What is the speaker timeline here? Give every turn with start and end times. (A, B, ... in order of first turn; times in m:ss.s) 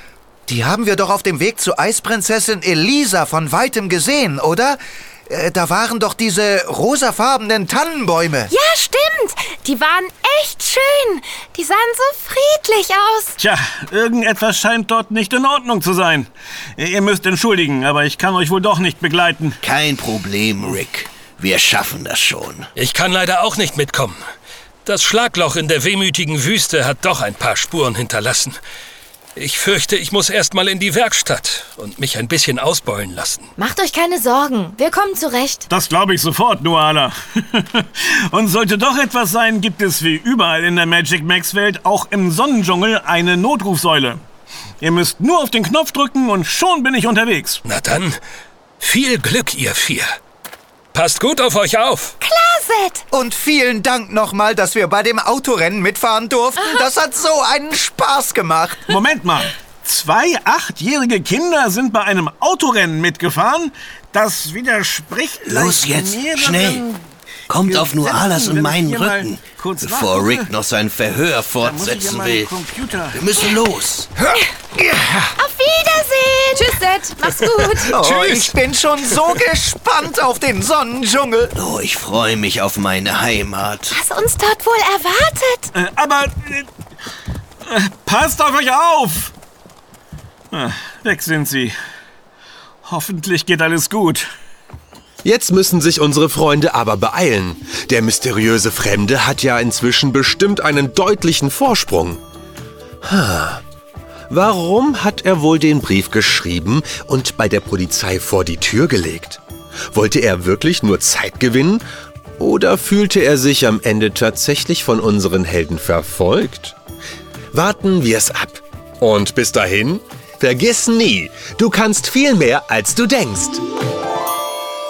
0:00.5-0:08.5 A
0:08.5-0:13.4 B
0:13.4-0:19.6 C
0:19.6-0:22.7 D
0:22.8-0:24.2 E
0:24.8-0:28.6 E
0:29.4-0:33.5 E
0:33.6-0:35.7 F
0:35.7-0:44.2 C
0:44.8-0:47.6 C
0:47.7-0:48.2 E
0:48.8-0:50.1 E
0:50.9-0:52.2 E
0:52.2-0:53.0 B
0:53.1-0:58.9 A
0:56.6-0:56.8 B
0:58.9-1:07.0 C
1:05.4-1:06.9 D
1:07.5-1:14.1 D
1:07.6-1:10.5 C
1:11.6-1:13.4 C
1:14.2-1:15.4 A
1:15.4-1:16.8 B
1:16.6-1:18.0 F
1:17.3-1:17.9 E
1:17.9-1:21.5 A
1:21.6-1:24.0 D
1:23.9-1:25.7 B
1:25.7-1:26.7 C
1:27.6-1:29.3 C
1:30.5-1:31.8 C
1:32.8-1:34.2 C
1:35.2-1:42.2 G
1:43.0-1:43.6 G
1:44.3-1:49.4 G
1:49.9-1:51.8 G
1:52.4-1:56.8 G
1:57.5-2:03.6 G